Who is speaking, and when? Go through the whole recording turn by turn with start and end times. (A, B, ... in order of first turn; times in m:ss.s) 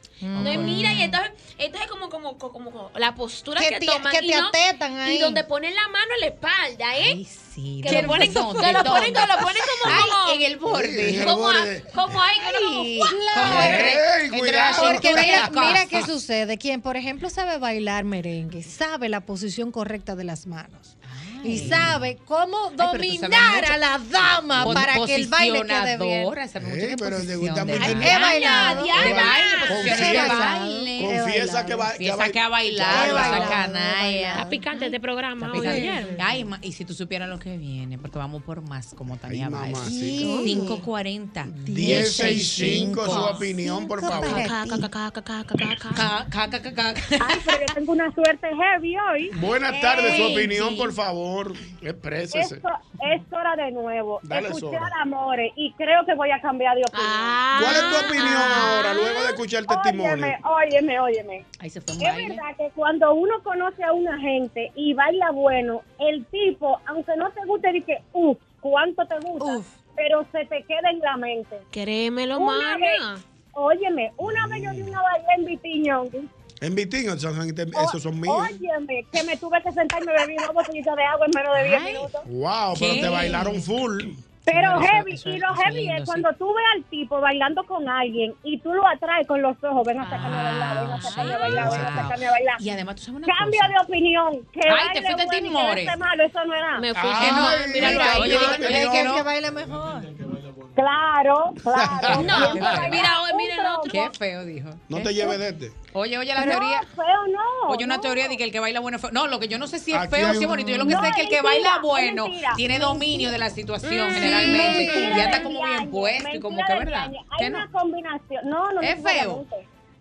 0:00.2-0:00.8 A
0:00.3-0:01.2 B
0:00.4-0:07.2 C
0:03.6-0:05.4 A
0:07.0-0:11.4 B
0:07.8-0:10.4 C
0:07.9-0:08.3 A
0:10.7-0:11.9 D
0:11.1-0:13.7 C
0:12.4-0:16.0 B
0:13.1-0:14.0 A
0:13.4-0:16.0 D
0:14.6-0:26.3 A
0:21.0-0:21.9 B
0:21.5-0:22.0 D
0:22.8-0:23.8 B
0:24.5-0:24.9 D
0:24.6-0:31.2 B
0:26.6-0:33.6 D
0:27.8-0:31.9 A
0:27.8-0:29.9 C
0:32.0-0:34.4 B
0:32.8-0:34.9 A
0:34.4-0:36.2 C
0:35.4-0:43.4 B
0:35.5-0:36.2 A
0:39.2-0:40.3 D
0:39.8-0:40.8 A
0:40.2-0:40.5 C
0:41.4-0:44.5 D
0:41.6-0:44.9 A
0:44.1-0:46.0 C
0:45.9-0:47.7 B
0:47.2-0:49.3 E
0:49.3-0:52.6 D
0:49.8-0:50.7 B
0:50.0-0:50.6 C
0:52.3-0:57.4 E
0:54.2-0:54.9 D
0:56.9-0:59.1 C
0:57.5-1:00.4 D
0:59.1-1:01.4 E
1:01.6-1:02.4 B
1:02.0-1:11.6 E
1:11.7-1:13.2 C
1:12.3-1:13.0 E
1:13.5-1:16.3 E
1:14.2-1:14.9 D
1:16.6-1:18.5 D
1:17.7-1:22.2 E
1:21.5-1:22.1 B
1:22.2-1:24.2 D
1:22.7-1:23.7 B
1:24.5-1:32.6 E
1:24.5-1:26.2 B
1:30.0-1:33.7 B
1:33.2-1:36.9 E
1:34.7-1:36.0 B
1:36.8-1:38.8 C
1:36.9-1:39.2 D
1:37.2-1:39.2 B
1:37.8-1:40.1 A
1:40.7-1:44.0 E
1:41.7-1:42.6 D
1:42.1-1:44.1 C
1:42.5-1:43.1 B
1:43.9-1:45.3 B
1:44.9-1:45.7 D
1:45.9-1:46.9 B
1:46.4-1:48.4 E
1:47.7-1:57.6 B
1:49.9-1:51.0 D
1:50.8-1:53.3 E
1:53.8-1:54.3 C
1:54.1-1:55.4 A
1:54.2-1:59.6 E
1:58.8-1:59.4 B